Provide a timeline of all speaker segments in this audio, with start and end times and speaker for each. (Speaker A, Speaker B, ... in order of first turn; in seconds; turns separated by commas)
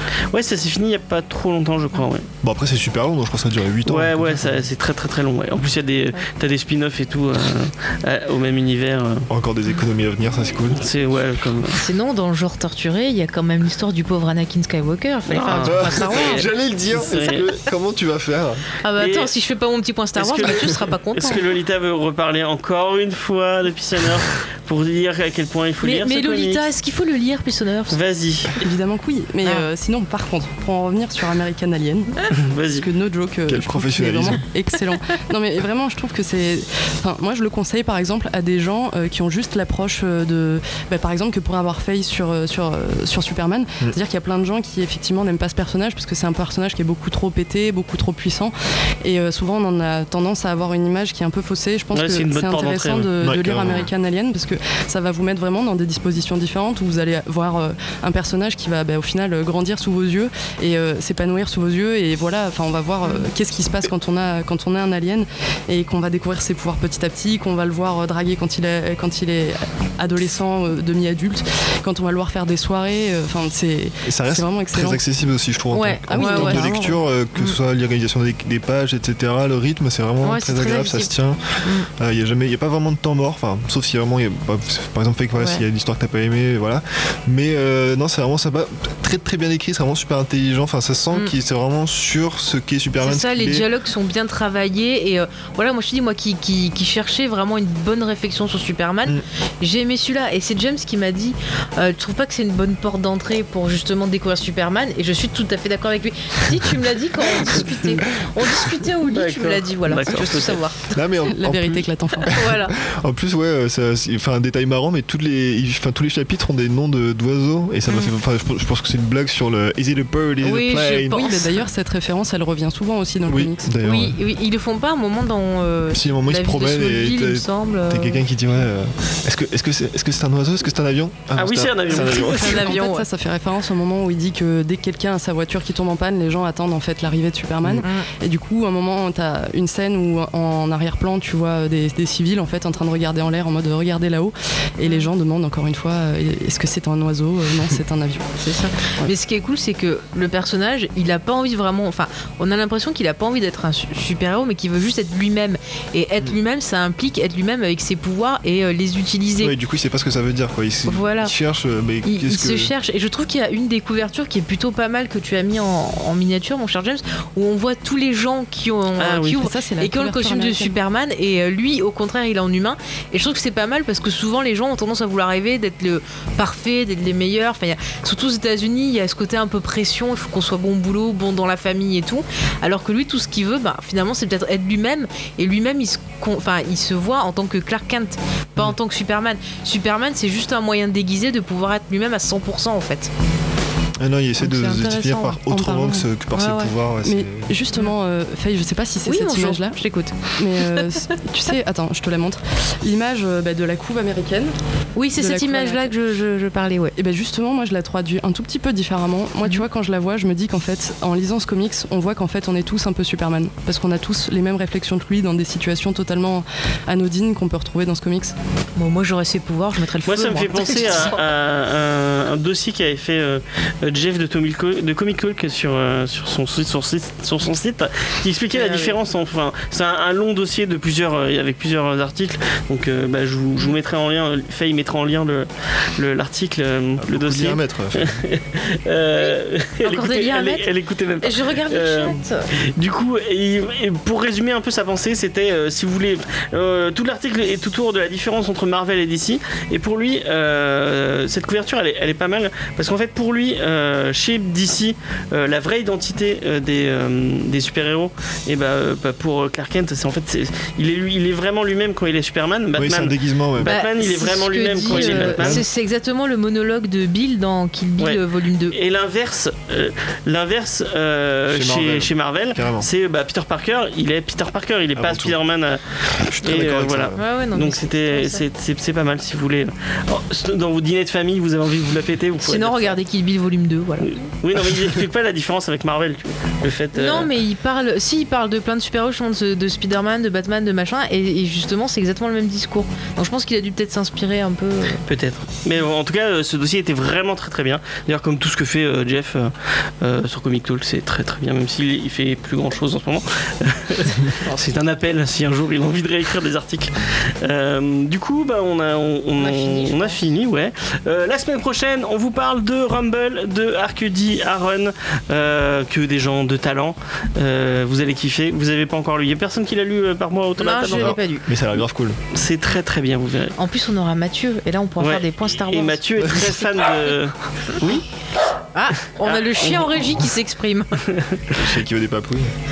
Speaker A: 0.3-2.3, Speaker B: 2.4-4.7, Speaker A: 3.9-9.3, Speaker B: 9.3-10.8, Speaker A: 10.7-11.8, Speaker C: 11.8-16.5, Speaker A: 15.3-17.5, Speaker B: 15.6-18.6, Speaker C: 18.8-21.4, Speaker A: 19.0-19.3, Speaker A: 20.2-26.6, Speaker C: 25.8-28.0, Speaker A: 27.9-28.6, Speaker D: 28.6-75.0, Speaker C: 29.4-29.7, Speaker A: 32.3-32.9, Speaker B: 33.5-34.4, Speaker A: 51.9-53.1, Speaker B: 53.2-53.9, Speaker C: 63.0-63.3, Speaker B: 74.0-93.7, Speaker C: 75.7-76.7, Speaker D: 76.1-77.0, Speaker C: 80.2-81.1, Speaker C: 81.6-81.9, Speaker C: 85.3-85.6, Speaker C: 93.0-111.0, Speaker A: 107.5-108.0, Speaker A: 109.1-110.6, Speaker B: 110.9-121.5, Speaker D: 111.3-112.3, Speaker C: 112.3-112.8, Speaker C: 117.9-118.1, Speaker C: 120.4-121.5, Speaker D: 121.1-123.7, Speaker B: 123.3-124.2, Speaker C: 123.8-128.2, Speaker B: 125.9-132.6, Speaker A: 131.4-132.7, Speaker C: 131.9-133.1, Speaker D: 132.4-148.3, Speaker C: 144.8-145.1, Speaker C: 148.4-159.5, Speaker B: 159.4-162.7, Speaker C: 160.9-161.3, Speaker C: 162.1-193.1, Speaker A: 169.0-169.4, Speaker D: 169.3-170.8, Speaker B: 194.0-197.5, Speaker C: 194.4-195.4, Speaker D: 195.5-196.1, Speaker C: 196.4-196.7, Speaker D: 197.0-199.8, Speaker C: 199.1-200.8, Speaker D: 200.4-204.5, Speaker C: 205.0-206.9, Speaker D: 205.2-205.9, Speaker D: 206.9-218.3, Speaker C: 218.8-221.2, Speaker A: 220.0-265.7, Speaker C: 228.5-229.0, Speaker B: 237.0-238.2, Speaker C: 239.2-240.7, Speaker C: 241.2-242.5, Speaker B: 262.8-263.8, Speaker C: 263.6-268.8, Speaker B: 264.9-265.7, Speaker A: 268.0-275.8, Speaker B: 271.5-272.9, Speaker B: 275.0-275.4, Speaker B: 276.2-277.2, Speaker A: 276.4-283.0, Speaker C: 277.2-278.4, Speaker C: 282.4-284.2, Speaker A: 284.0-287.3, Speaker C: 286.9-295.0, Speaker A: 295.1-321.2, Speaker C: 309.4-310.2, Speaker C: 320.6-321.5, Speaker B: 320.9-322.2, Speaker A: 322.3-323.6, Speaker C: 323.6-326.5, Speaker A: 325.0-327.9, Speaker B: 326.2-326.5, Speaker C: 328.7-331.0, Speaker A: 329.2-330.1, Speaker A: 331.1-331.6, Speaker B: 331.5-332.5